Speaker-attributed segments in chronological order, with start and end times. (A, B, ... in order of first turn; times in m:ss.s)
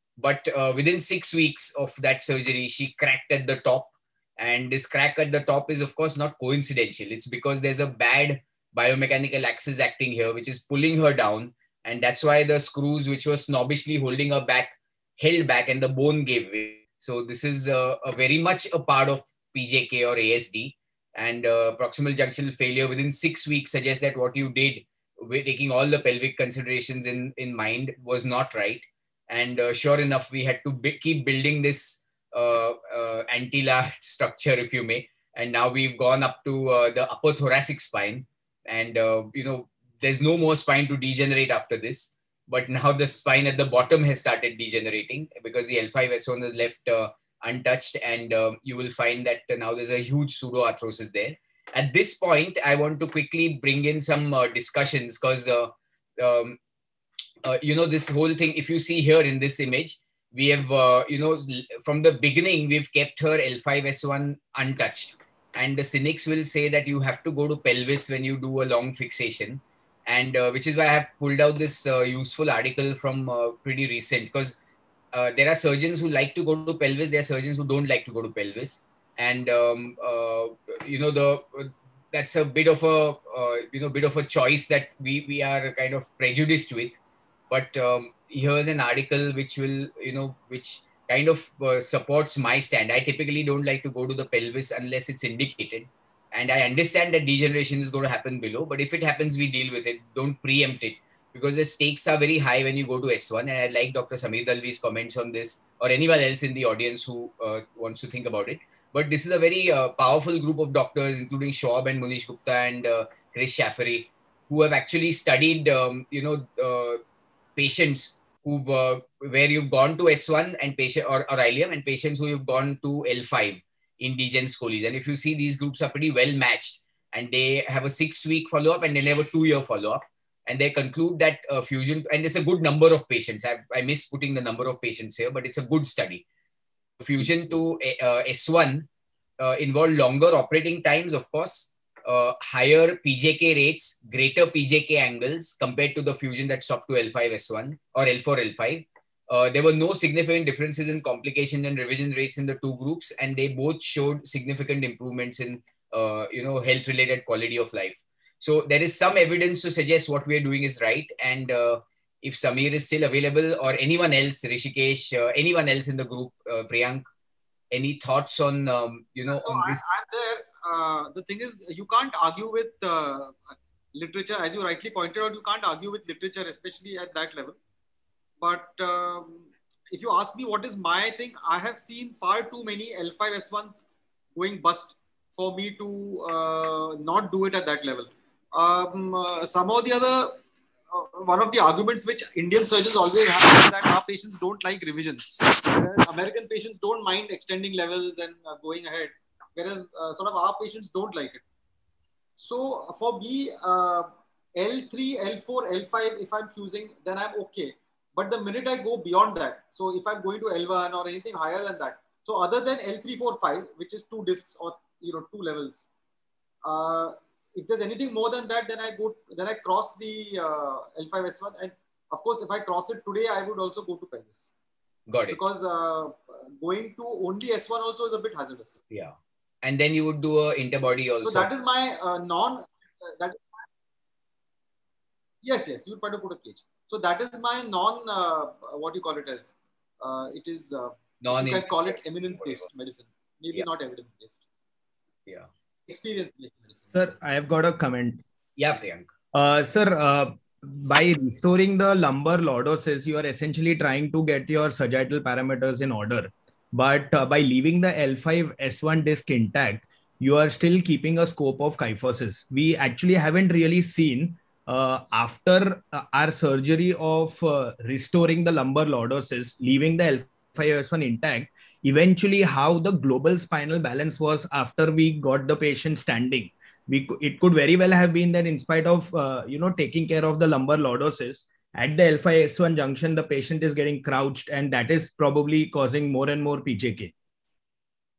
0:00.2-0:56.6 A
0:57.4-1:14.6 A
1:15.1-1:27.0 A
1:27.5-1:57.0 A
1:57.6-2:16.2 A
2:17.0-2:18.9 A
2:19.4-2:47.1 A
2:47.7-2:49.8 A
2:49.3-2:57.6 B
2:58.4-3:21.4 B
3:22.4-3:35.9 B
3:36.6-3:44.5 B
3:45.1-3:45.4 A
3:45.3-3:48.8 B
3:48.9-3:51.5 A
3:51.2-3:53.4 B
3:55.4-4:04.4 B
4:01.2-4:02.7 A
4:05.9-4:06.9 B
4:06.9-4:08.2 C
4:08.6-4:09.1 A
4:09.3-4:47.1 C